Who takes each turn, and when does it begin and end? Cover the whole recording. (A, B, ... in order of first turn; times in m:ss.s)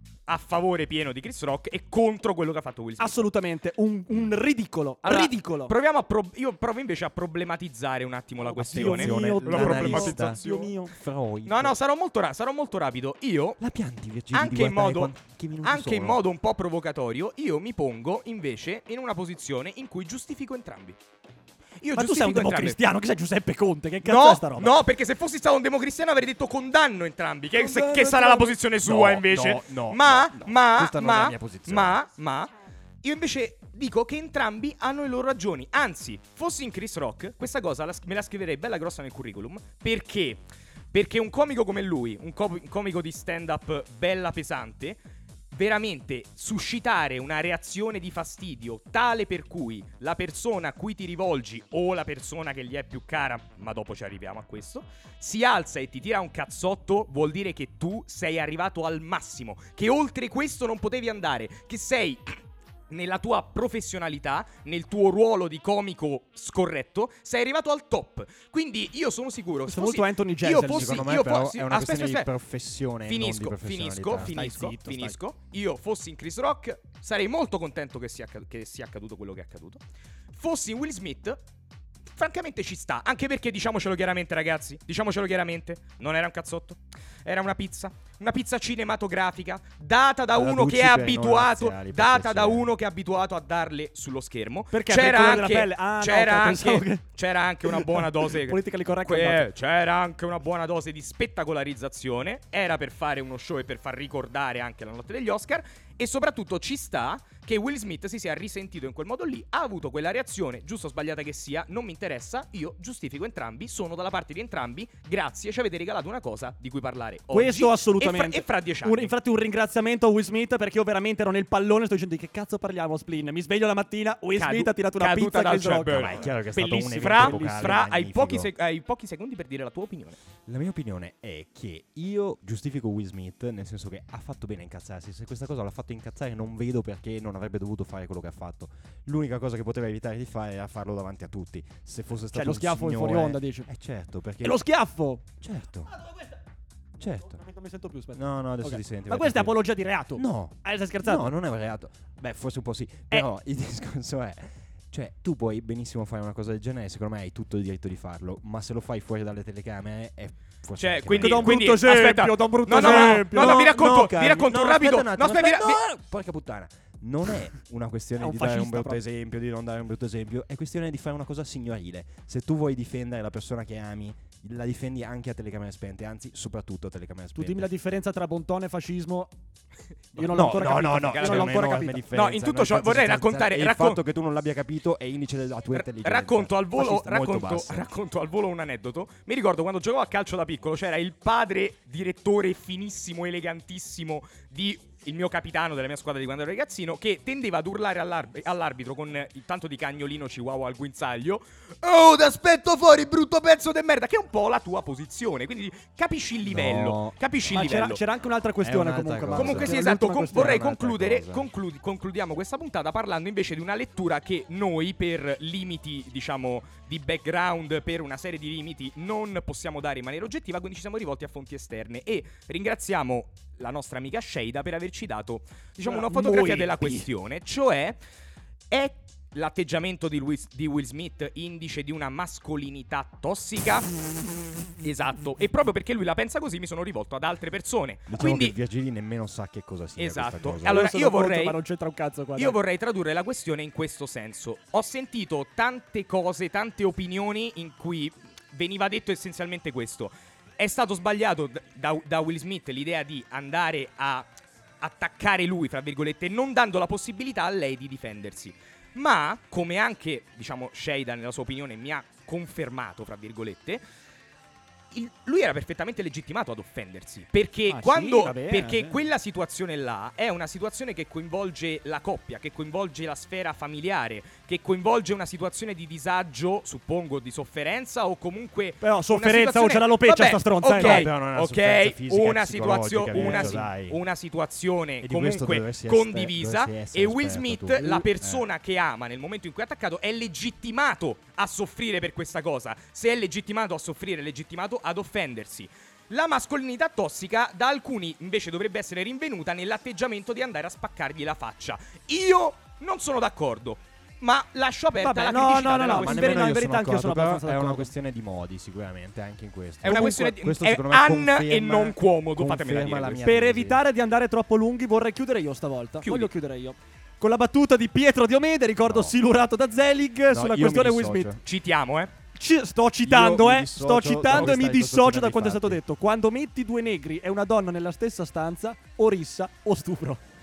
0:00.3-0:03.2 A
0:03.0-0:05.7 B
0:05.0-0:10.7 A
0:08.4-0:10.9 B
0:08.6-0:11.8 C
0:11.4-0:13.6 A
0:13.6-0:16.2 C
0:14.3-0:21.0 A
0:21.8-0:22.8 A
0:21.9-0:24.8 B
0:24.0-0:32.5 A
0:27.5-0:32.0 C
0:33.0-0:45.0 A
0:45.5-1:12.3 A
1:09.6-1:11.1 B
1:10.6-1:14.7 C
1:13.0-1:19.8 A
1:14.1-1:15.2 B
1:20.3-1:21.4 A
1:22.1-1:59.1 A
1:30.3-1:32.7 C
1:34.7-1:37.0 B
1:37.6-1:39.5 B
1:57.3-2:06.3 B
2:04.3-2:10.2 A
2:05.9-2:08.5 C
2:10.5-2:24.6 C
2:22.3-2:23.7 B
2:24.4-2:25.2 B
2:25.4-2:25.9 C
2:26.0-2:26.3 B
2:27.0-2:27.4 C
2:27.2-2:31.3 B
2:28.1-2:29.6 C
2:30.1-2:41.6 C
2:40.8-2:45.8 A
2:41.2-2:44.3 B
2:42.7-2:57.7 C
2:48.2-2:49.0 B
2:57.3-2:59.3 B
3:00.2-3:02.0 B
3:00.2-3:04.0 A
3:00.2-3:07.9 C
3:05.7-3:28.0 A
3:26.4-3:27.6 C
3:27.5-3:30.6 B
3:28.6-3:31.5 C
3:29.3-3:48.0 A
3:45.8-3:47.1 B
3:48.7-3:53.9 A
3:54.8-3:58.6 A
3:58.1-4:00.9 C
4:00.0-4:01.6 A
4:00.6-4:02.6 B
4:02.3-4:14.3 A
4:14.8-4:23.8 A
4:24.9-5:06.4 A
4:27.7-4:29.0 B
4:38.8-4:41.1 B
4:40.7-4:44.0 C
4:43.1-4:43.7 B
4:45.0-4:48.4 C
5:05.0-5:07.9 B
5:05.8-5:13.8 C
5:09.8-5:13.2 A
5:09.9-5:10.2 B
5:13.2-5:21.3 B
5:16.0-5:16.3 A
5:18.8-5:19.2 C
5:20.3-5:21.4 C
5:21.4-5:22.1 A
5:22.3-5:30.2 B
5:23.0-5:25.8 C